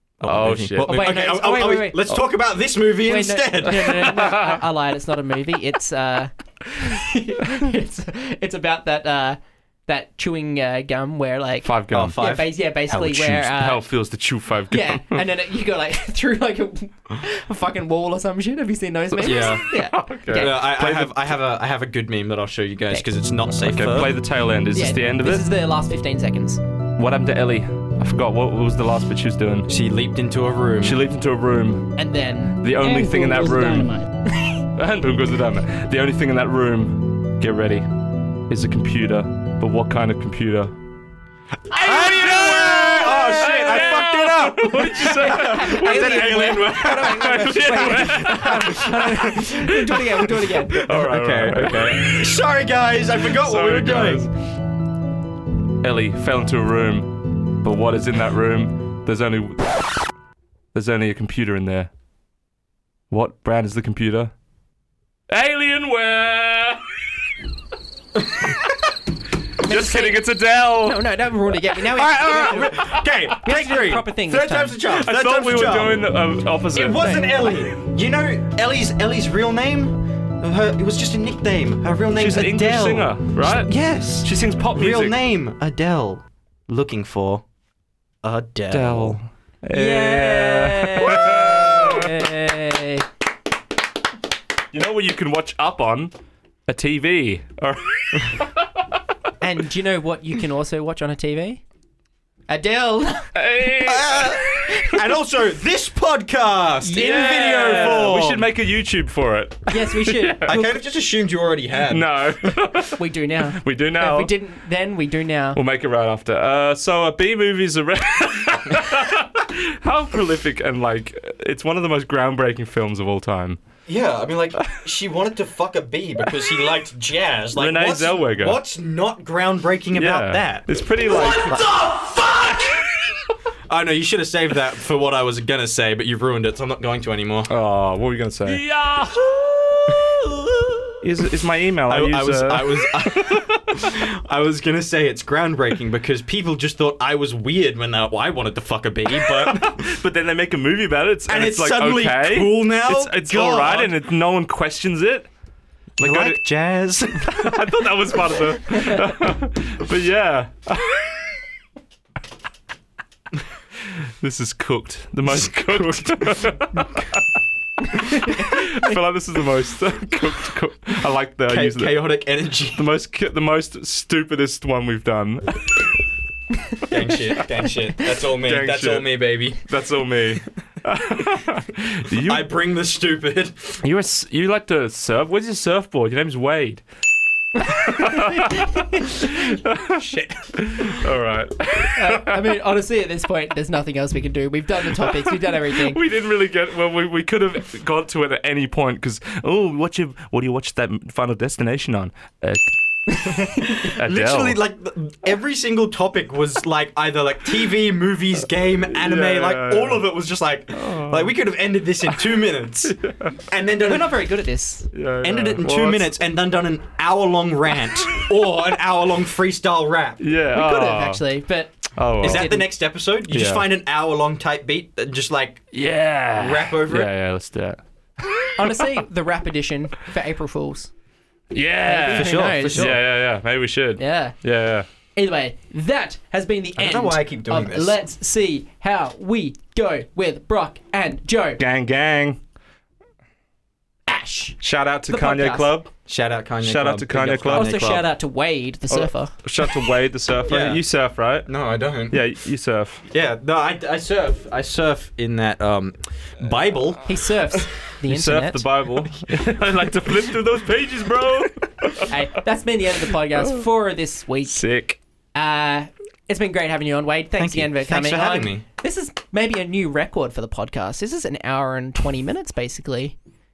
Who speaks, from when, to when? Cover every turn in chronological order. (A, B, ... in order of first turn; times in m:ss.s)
0:00.2-0:04.1 A
0:00.2-0:01.0 B
0:00.8-0:02.1 C
0:03.0-0:13.8 C
0:04.1-0:04.6 B
0:11.6-0:12.2 B
0:11.9-0:12.5 A
0:12.9-0:15.2 B
0:14.7-0:20.7 C
0:19.2-0:21.2 B
0:19.2-0:19.7 A
0:20.3-0:24.1 A
0:23.6-0:25.5 B
0:24.7-0:26.6 C
0:27.0-0:29.7 B
0:29.7-0:31.0 A
0:30.8-0:31.9 B
0:32.0-0:34.6 C
0:32.6-0:34.0 B
0:34.7-0:37.9 B
0:38.5-0:40.7 B
0:41.7-0:49.3 A
0:41.8-0:49.0 B
0:41.8-0:42.2 C
0:45.0-0:50.9 C
0:50.8-0:52.3 B
0:50.8-0:54.3 A
0:53.2-0:54.3 B
0:55.8-0:59.8 B
1:00.7-1:01.9 B
1:03.1-1:04.3 B
1:05.3-1:06.8 B
1:09.6-1:11.0 B
1:09.6-1:14.8 C
1:11.9-1:16.1 A
1:14.8-1:17.4 B
1:16.7-1:27.4 A
1:22.1-1:25.2 B
1:28.2-1:29.2 A
1:28.7-1:32.1 B
1:29.7-1:33.0 C
1:34.7-1:36.1 B
1:36.7-1:38.5 B
1:39.4-1:41.6 C
1:42.5-1:43.3 C
1:43.3-1:44.7 B
1:43.8-1:48.5 A
1:46.8-1:48.0 C
1:46.9-1:50.5 B
1:49.7-1:50.8 C
1:50.4-1:52.2 A
1:51.9-1:53.0 B
1:53.0-1:55.6 C
1:53.6-1:54.3 B
1:55.5-2:03.6 B
2:03.8-2:12.8 A
2:07.6-2:08.6 B
2:09.9-2:11.9 B
2:13.7-2:17.5 A
2:17.5-2:19.1 B
2:19.1-2:20.9 A
2:21.0-2:23.7 B
2:21.9-2:29.8 A
2:29.3-2:35.3 B
2:31.3-2:33.9 A
2:36.0-2:36.4 B
2:36.0-2:37.5 A
2:37.2-2:41.0 B
2:44.2-2:47.2 B
2:45.7-2:46.2 A
2:46.8-2:47.0 A
2:47.9-2:52.2 B
2:47.9-2:49.0 C
2:51.5-2:52.9 A
2:52.7-2:55.6 B
2:56.9-2:59.6 A
2:58.3-3:02.5 B
3:02.2-3:03.8 A
3:03.8-3:06.8 B
3:07.6-3:10.0 B
3:09.9-3:11.0 A
3:10.6-3:12.3 B
3:11.9-3:16.0 C
3:15.1-3:24.6 B
3:23.2-3:23.8 C
3:23.8-3:34.2 A
3:28.9-3:30.1 B
3:30.7-3:31.3 B
3:32.8-3:33.3 B
3:33.8-3:34.9 C
3:34.9-3:36.1 B
3:35.2-3:40.2 A
3:40.2-3:41.2 B
3:40.5-3:42.7 C
3:42.0-3:42.6 B
3:42.2-3:45.7 A
3:43.3-3:43.7 B
3:45.7-3:47.8 B
3:46.4-3:47.1 A
3:48.6-3:50.9 C
3:51.5-3:54.9 B
3:51.8-3:53.0 C
3:52.1-3:53.0 A
3:54.0-3:54.4 C
3:55.1-4:01.6 C
3:56.8-3:58.0 A
4:01.6-4:02.4 B
4:04.1-4:05.7 C
4:04.6-4:05.9 B
4:06.1-4:08.0 A
4:06.6-4:08.0 B
4:07.5-4:09.3 C
4:08.9-4:11.5 B
4:10.5-4:10.8 A
4:11.4-4:12.2 A
4:12.1-4:13.0 B
4:13.1-4:17.0 A
4:17.0-4:18.6 C
4:18.0-4:22.1 B
4:22.1-4:24.6 C
4:24.4-4:25.0 B
4:25.3-4:33.2 C
4:27.4-4:28.6 A